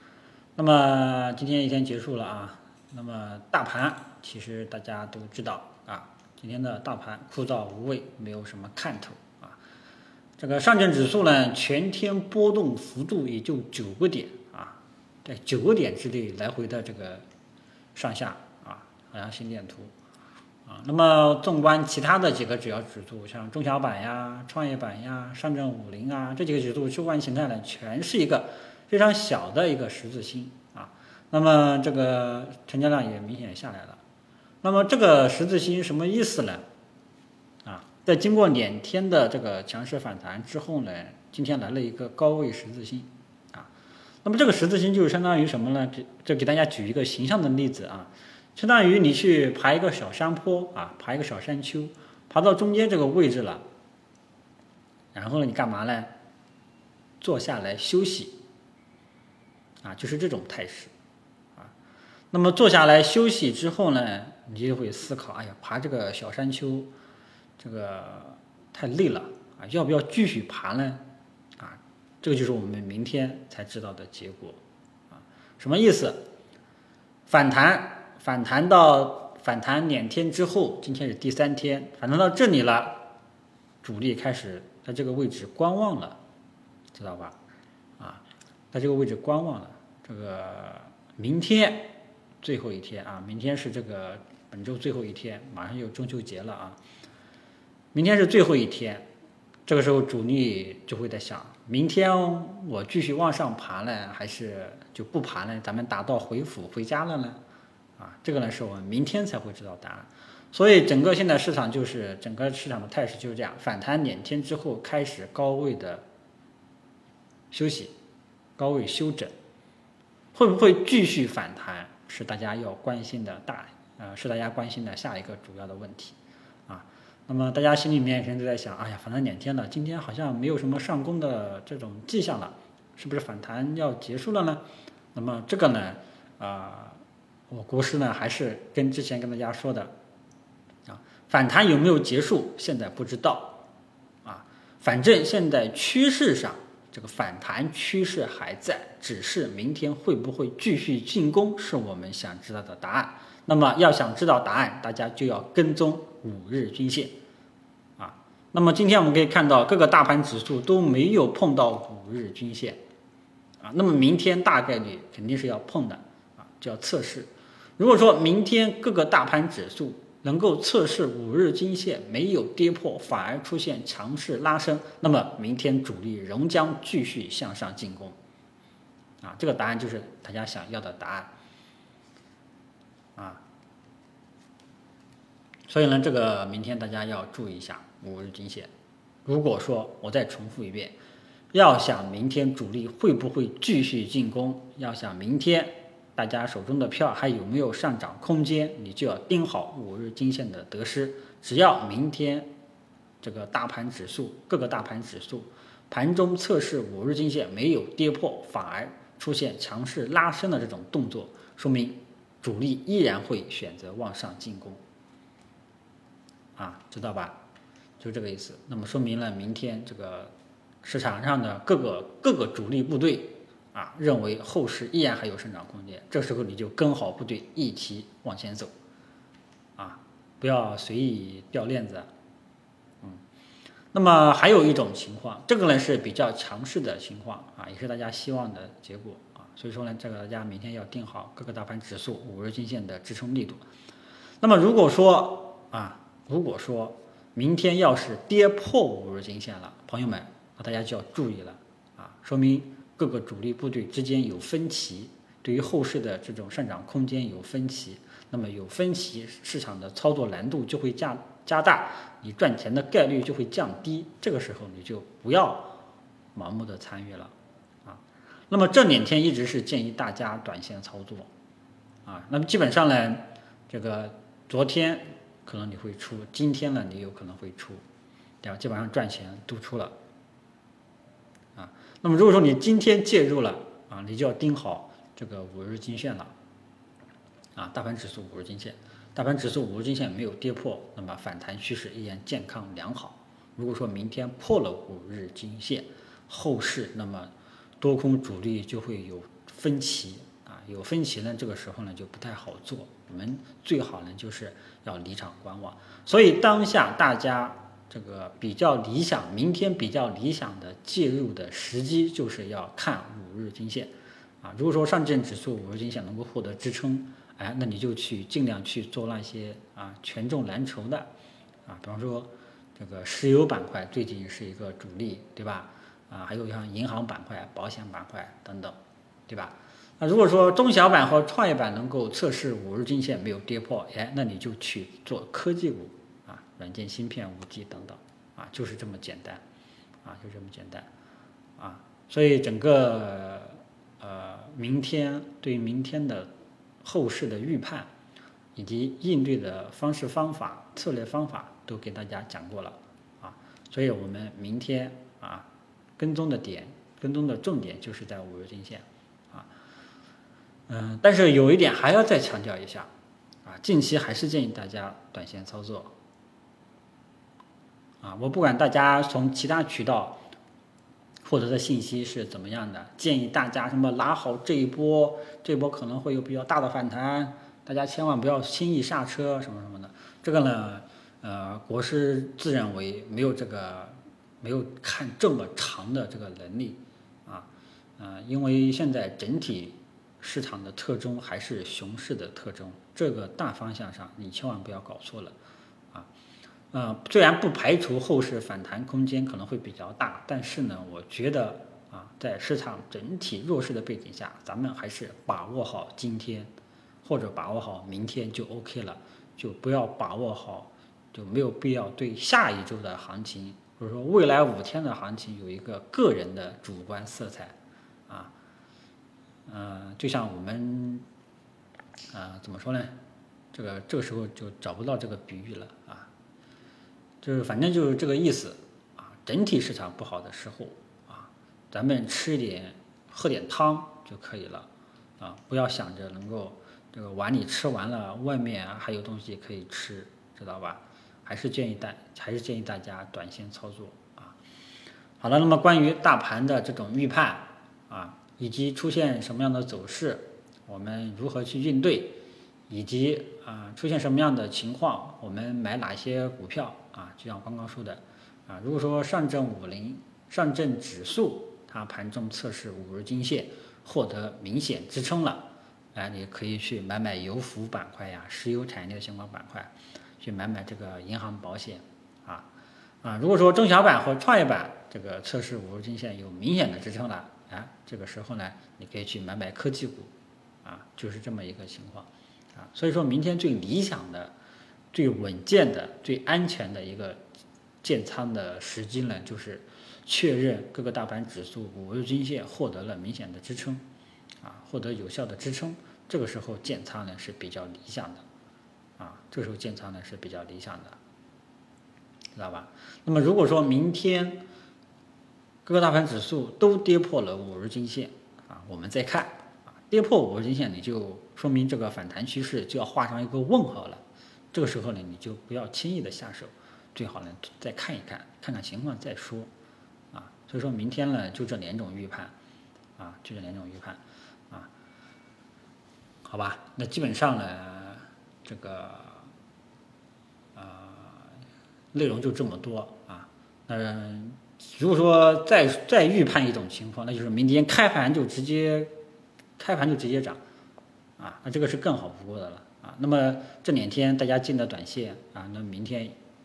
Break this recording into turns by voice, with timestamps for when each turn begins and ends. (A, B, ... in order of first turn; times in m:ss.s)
0:00.6-0:09.6 A
0:10.4-0:17.2 A
0:17.9-0:19.9 A
0:20.6-0:34.0 A
0:34.6-0:36.6 A
0:37.6-0:43.7 A
0:44.2-0:53.6 A
0:55.1-0:56.1 A
0:57.2-0:58.4 A
0:59.8-1:00.9 A
1:02.3-1:06.9 A
1:07.6-1:11.0 A
1:11.6-1:14.6 A
1:15.1-1:16.2 A
1:17.3-1:23.1 A
1:23.8-1:26.2 A
1:26.9-1:27.3 A
1:28.0-1:36.8 A
1:37.9-1:39.0 A
1:39.7-1:47.4 A
1:48.0-1:56.0 A
1:57.5-1:57.9 A
1:58.6-1:59.3 A
2:00.3-2:06.2 A
2:06.7-2:14.6 A
2:15.1-2:19.9 A
2:20.8-2:23.6 A
2:24.2-2:37.2 A
2:38.0-2:42.8 A
2:43.6-2:58.2 A
2:59.2-3:01.3 A
3:03.2-3:03.4 A
3:05.7-3:08.7 A
3:09.2-3:11.0 A
3:11.5-3:22.5 A
3:23.2-3:34.8 A
3:36.6-3:37.4 A
3:38.0-3:40.3 A
3:40.8-3:48.7 A
3:49.8-3:52.1 A
3:53.9-4:03.6 A
4:04.4-4:25.8 A
4:26.3-4:27.3 A
4:27.8-4:31.3 A
4:32.0-4:37.8 A
4:38.4-4:39.9 A
4:41.6-4:46.3 A
4:47.6-5:21.1 A
5:21.6-5:28.8 A
5:29.3-5:39.4 A
5:40.0-5:40.9 A
5:41.6-5:46.3 A
5:46.8-5:47.9 A
5:48.5-5:55.5 A
5:56.0-5:59.5 A
6:00.7-6:02.9 A
6:03.4-6:05.9 A
6:08.0-6:10.2 A
6:11.2-6:35.3 A
6:36.7-6:46.5 A
6:47.0-6:57.5 A
6:59.5-7:01.0 A
7:02.1-7:02.9 A
7:03.5-7:06.1 A
7:07.2-7:14.7 A
7:15.2-7:24.3 A
7:25.2-7:32.2 A
7:32.7-7:45.4 A
7:45.9-7:52.5 A
7:53.0-8:00.1 A
8:00.6-8:04.3 A
8:04.9-8:07.2 A
8:07.8-8:13.8 A
8:14.4-8:18.2 A
8:19.0-8:21.0 A
8:22.3-8:24.4 A
8:25.6-8:34.0 A
8:34.5-8:39.5 A
8:40.1-8:42.3 A
8:43.0-8:44.7 A
8:46.2-8:49.3 A
8:50.5-8:51.3 A
8:51.9-8:58.9 A
8:59.6-9:00.4 A
9:01.2-9:06.2 A